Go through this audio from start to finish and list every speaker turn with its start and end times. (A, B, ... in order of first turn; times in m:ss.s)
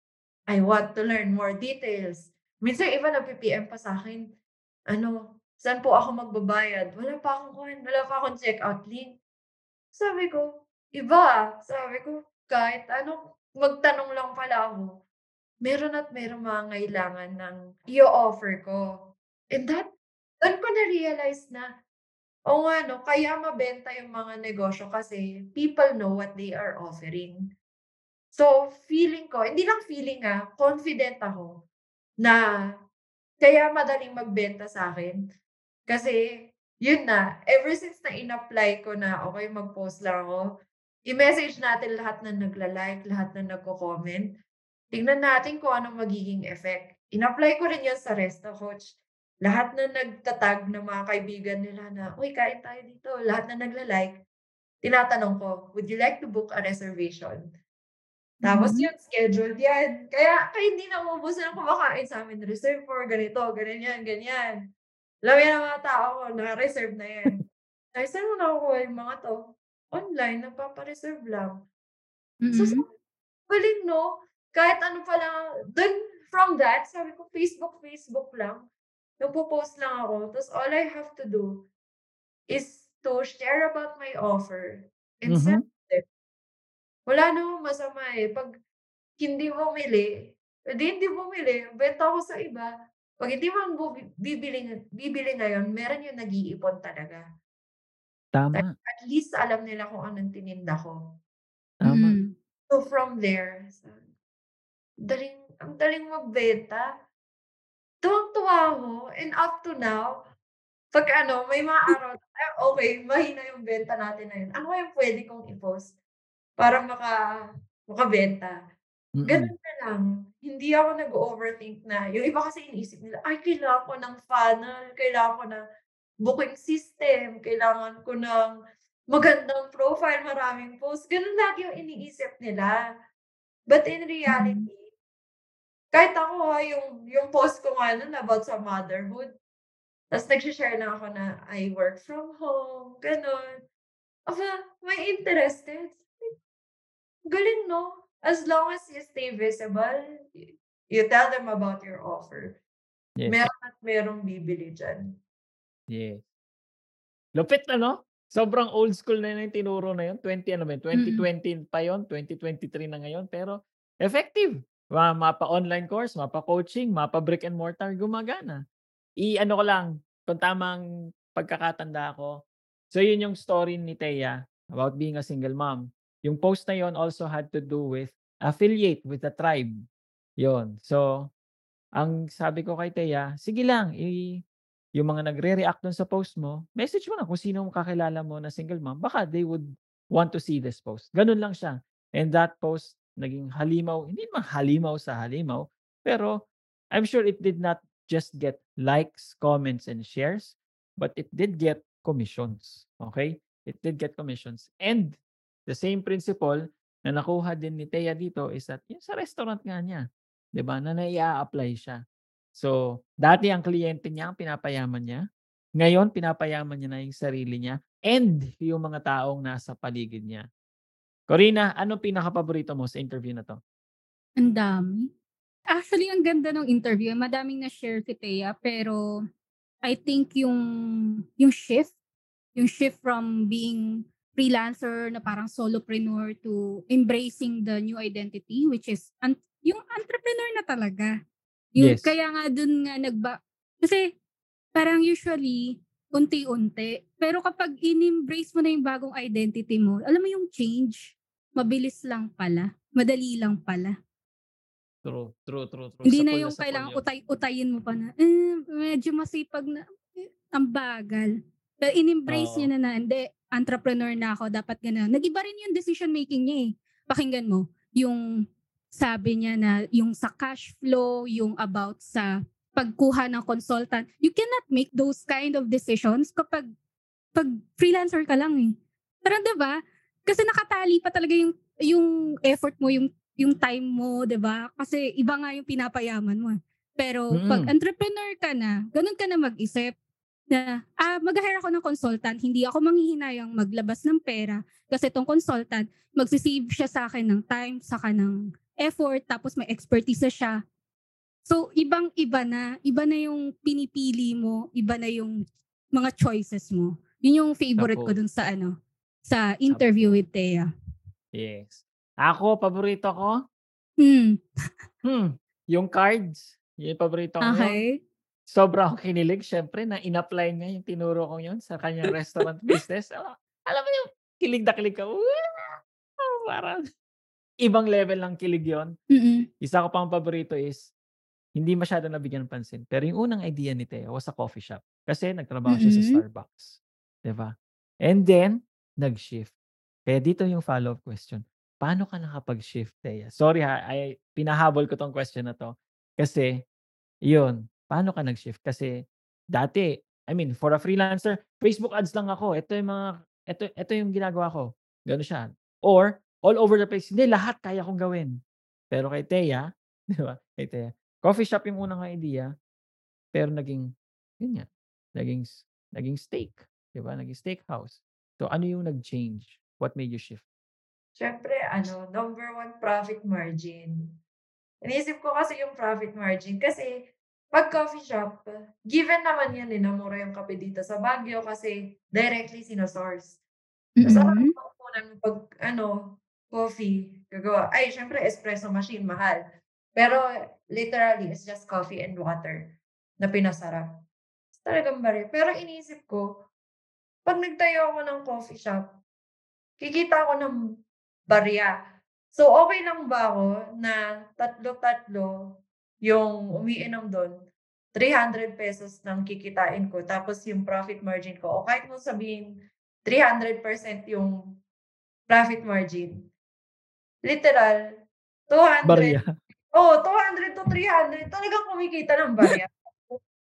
0:00.5-0:04.2 A
0:04.9-0:09.2 A
0:10.0-0:14.9 A
0:15.6-0:18.8 A
0:19.5-0:19.9 A
0:20.4-0:21.7 A
0:22.5-0:27.4 A
0:28.3-0:31.5 A
0:33.4-0:35.2 A
0:35.9-0:40.4 A
0:41.1-0:44.3 A
0:44.9-0:54.2 A
0:54.8-0:57.4 A
0:58.4-1:04.6 A
0:58.4-0:58.9 B
1:05.2-1:07.4 A
1:08.0-1:11.6 A
1:12.4-1:12.8 B
1:12.5-1:12.8 A
1:13.5-1:18.7 A
1:19.2-1:21.7 A
1:22.5-1:26.0 A
1:25.3-1:25.6 C
1:27.1-1:28.5 A
1:29.2-1:30.1 A
1:30.7-1:32.7 A
1:33.2-1:37.2 A
1:38.3-1:38.7 C
1:38.6-1:40.9 A
1:41.8-1:42.1 C
1:41.9-1:42.3 B
1:42.7-1:44.0 A
1:45.1-1:46.8 A
1:48.0-1:50.1 A
1:50.9-1:56.0 A
1:56.6-1:57.2 A
1:57.9-1:58.6 A
1:59.2-1:59.5 C
1:59.3-2:05.6 A
2:06.2-2:08.6 A
2:09.1-2:12.8 A
2:13.7-2:14.9 A
2:14.3-2:14.7 B
2:15.9-2:19.3 A
2:20.1-2:23.5 A
2:24.3-2:26.3 A
2:27.3-2:32.6 A
2:33.2-2:33.5 C
2:33.3-2:35.2 A
2:35.9-2:36.2 C
2:37.4-2:48.6 C
2:40.9-2:41.2 B
2:49.2-2:50.8 C
2:51.4-2:52.3 C
2:52.9-2:59.7 C
3:00.4-3:01.3 C
3:02.0-3:04.4 C
3:05.0-3:30.0 C
3:30.6-3:32.0 C
3:32.6-3:35.2 C
3:35.8-3:40.5 C
3:41.3-3:43.6 C
3:44.4-3:45.1 B
3:45.7-3:49.0 B
3:49.9-3:51.9 B
3:52.6-4:01.1 B
4:01.8-4:04.0 B
4:01.8-4:02.1 C
4:04.8-4:13.9 B
4:15.0-4:17.0 C
4:16.0-4:28.2 B
4:22.3-4:22.7 C
4:28.9-4:36.7 B
4:37.4-4:38.7 B
4:39.2-4:39.8 B
4:40.3-4:50.0 B
4:47.3-4:47.7 C
4:50.5-5:00.6 B
5:01.5-5:05.3 B
5:05.9-5:08.7 B
5:07.8-5:08.1 C
5:09.3-5:10.7 B
5:09.7-5:10.2 C
5:11.4-5:13.4 C
5:14.0-5:14.4 B
5:15.0-5:17.8 C
5:17.4-5:17.9 B
5:18.5-5:25.7 C
5:26.2-5:26.8 C
5:27.6-5:28.9 C
5:29.1-5:29.4 B
5:29.6-5:30.8 C
5:31.6-5:37.5 C
5:35.7-5:36.2 B
5:38.1-5:39.5 C
5:40.1-5:46.5 C
5:47.3-5:48.9 C
5:49.6-5:58.3 C
5:58.9-6:02.5 C
6:03.3-6:03.9 C
6:04.4-6:10.4 C
6:11.2-6:14.1 A
6:14.8-6:23.4 A
6:24.0-6:24.5 B
6:24.0-6:29.4 A
6:30.0-6:33.9 A
6:34.6-6:36.3 A
6:37.3-6:38.9 A
6:39.8-6:40.6 A
6:41.3-6:41.7 A
6:42.3-6:47.3 A
6:48.0-6:52.5 A
6:53.0-6:54.4 A
6:55.3-6:56.3 A
6:57.3-6:57.8 A
6:58.5-6:59.2 A
6:58.9-6:59.3 C
6:59.7-7:03.2 A